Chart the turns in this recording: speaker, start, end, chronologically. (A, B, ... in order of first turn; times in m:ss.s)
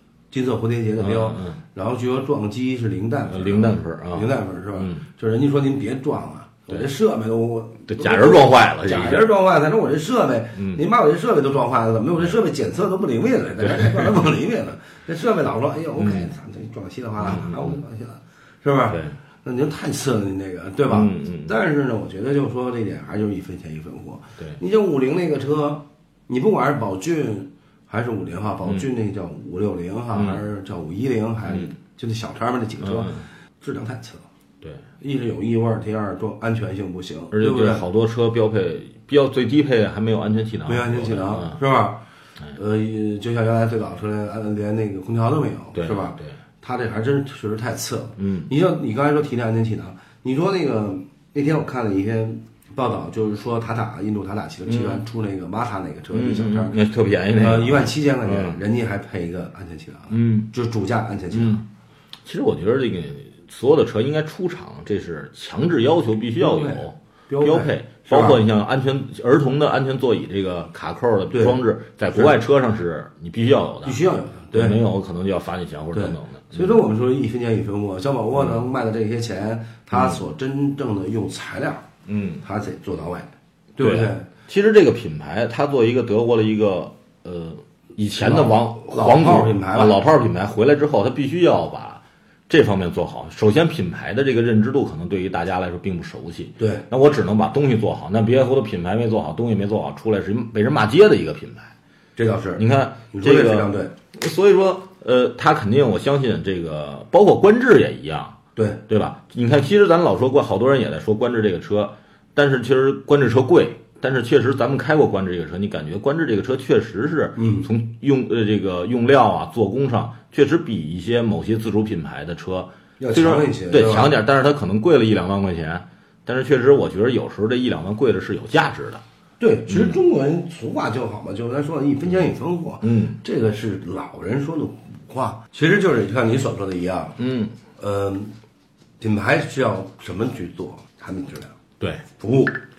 0:00.3-0:34.2 A
0:01.0-0:01.6 B
0:03.3-0:05.0 B
0:07.9-0:09.3 B
0:10.6-0:10.8 B
0:13.6-0:14.3 B
0:16.0-0:16.3 B
0:17.2-0:17.8 B
0:18.9-0:19.1 B
0:20.8-0:21.5 B
0:30.1-0:30.4 B
0:32.8-0:33.2 B
0:35.0-0:37.8 A
0:37.3-0:41.6 B
0:40.6-0:42.0 A
0:42.5-0:56.8 A
0:45.7-0:46.4 B
0:48.2-0:48.5 B
0:54.7-0:55.0 B
0:56.1-0:58.6 B
0:57.4-1:01.6 A
1:00.1-1:00.5 B
1:01.3-1:01.6 B
1:02.2-1:14.0 B
1:06.4-1:08.4 A
1:11.3-1:11.6 A
1:12.1-1:12.4 A
1:13.8-1:14.8 A
1:14.5-1:16.8 B
1:15.9-1:21.9 A
1:19.9-1:20.2 B
1:22.1-1:22.4 B
1:22.4-1:24.3 A
1:23.8-1:41.7 B
1:28.2-1:30.1 A
1:36.6-1:36.8 A
1:42.2-1:43.9 A
1:42.6-1:48.4 B
1:48.6-1:48.8 A
1:48.9-2:09.0 B
1:57.4-1:57.7 A
2:03.0-2:04.2 A
2:09.4-2:17.2 A
2:09.7-2:10.0 B
2:12.8-2:13.2 B
2:17.2-2:17.5 B
2:17.8-2:18.3 A
2:19.0-2:21.5 A
2:22.2-2:22.6 A